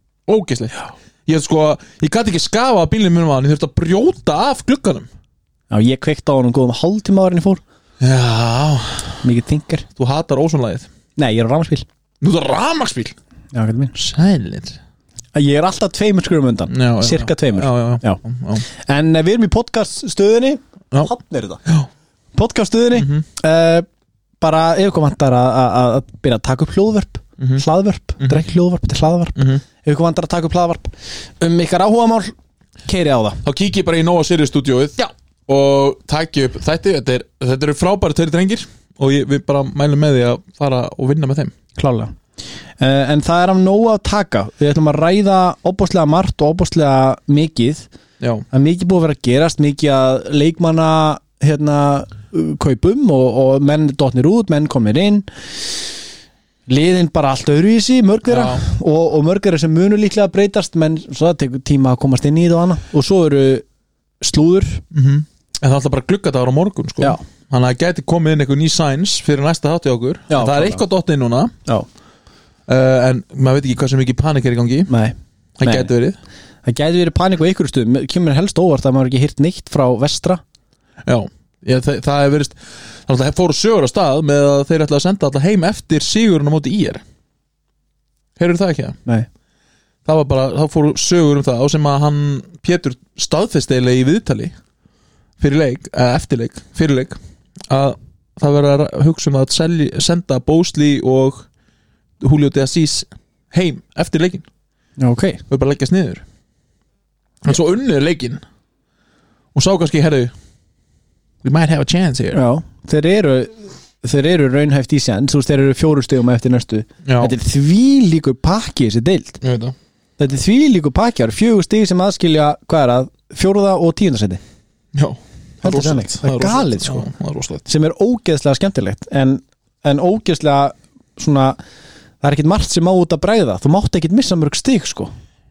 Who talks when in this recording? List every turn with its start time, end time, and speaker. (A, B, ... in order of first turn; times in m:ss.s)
0:00.3-0:05.1 A
0:05.7-0:07.6 B
0:08.0-0:09.2 A
0:09.2-0:09.8 B
0:10.0-0:10.9 A
0:11.2-0:11.8 B
0:12.2-0:13.2 A
0:13.5-0:13.9 B
0:14.0-0:14.8 A
0:15.3-0:21.6 B
0:16.7-0:18.6 A
0:22.3-0:23.9 B
0:22.9-0:23.2 A
0:24.4-0:32.3 B
0:27.4-0:27.6 A
0:29.4-0:29.6 A
0:32.9-0:33.4 B
0:33.4-0:41.5 A
0:41.8-0:42.1 B
0:42.8-0:47.9 B
0:48.2-0:48.4 A
0:48.5-0:55.2 B
0:56.7-1:03.6 B
0:58.3-0:58.6 A
1:04.2-1:04.8 B
1:04.9-1:11.5 A
1:10.3-1:10.8 B
1:12.7-1:14.9 A
1:14.9-1:15.9 B
1:15.6-1:16.2 A
1:16.6-1:20.4 B
1:21.0-1:27.0 A
1:28.4-1:29.0 A
1:30.0-1:34.5 A
1:35.4-1:37.2 A
1:37.7-1:41.4 A
1:42.2-1:44.4 A
1:45.0-1:45.4 B
1:45.5-1:46.2 A
1:47.4-1:48.4 A
1:49.5-1:50.3 A
1:51.4-1:52.4 A
1:52.3-1:59.4 B
1:57.0-1:57.3 A
1:59.4-1:59.7 A
2:00.2-2:04.4 B
2:04.9-2:07.6 A
2:05.6-2:07.1 B
2:07.6-2:11.6 B
2:12.2-2:15.1 B